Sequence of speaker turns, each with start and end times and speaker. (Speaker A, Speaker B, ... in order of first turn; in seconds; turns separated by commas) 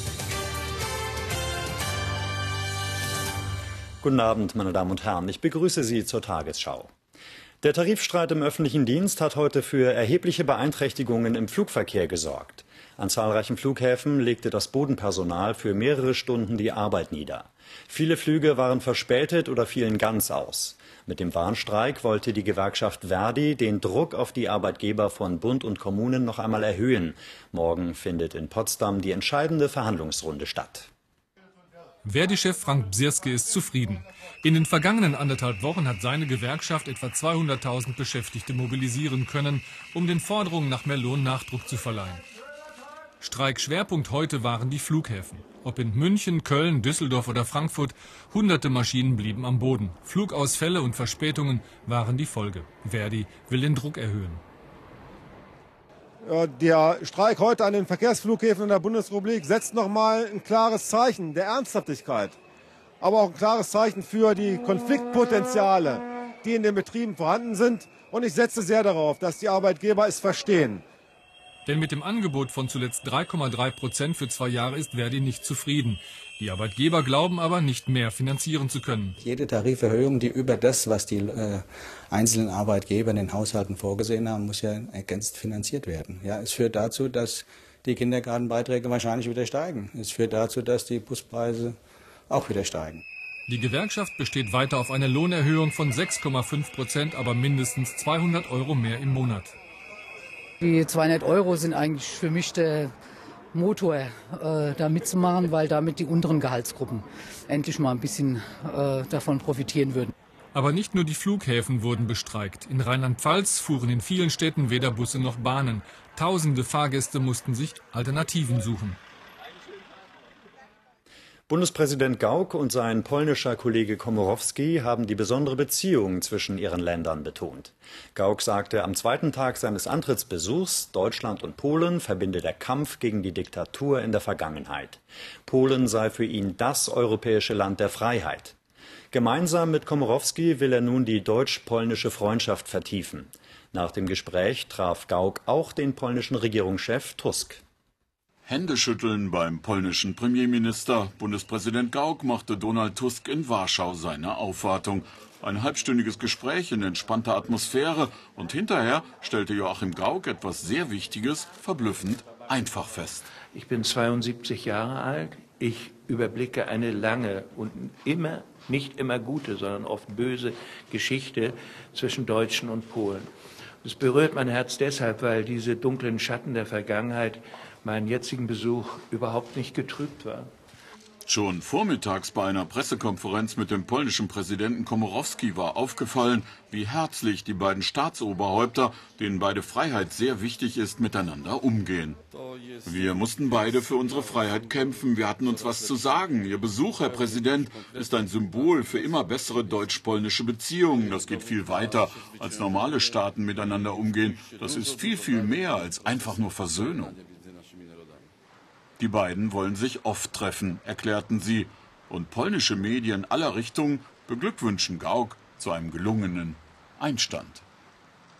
Speaker A: 4.0-6.9, Speaker A: 7.6-30.9, Speaker B: 32.0-42.2, Speaker B: 43.2-54.4, Speaker C: 56.2-62.3, Speaker C: 63.0-70.8, Speaker B: 71.7-79.2, Speaker D: 79.2-91.8, Speaker D: 92.3-93.0, Speaker B: 93.5-99.5, Speaker E: 100.6-102.9, Speaker E: 103.5-110.1, Speaker B: 110.5-119.0, Speaker A: 121.5-138.5, Speaker A: 139.1-147.6, Speaker F: 148.4-163.2, Speaker G: 163.5-173.3, Speaker G: 173.8-180.5, Speaker F: 181.3-192.2, Speaker F: 192.8-207.2, Speaker F: 209.0-217.6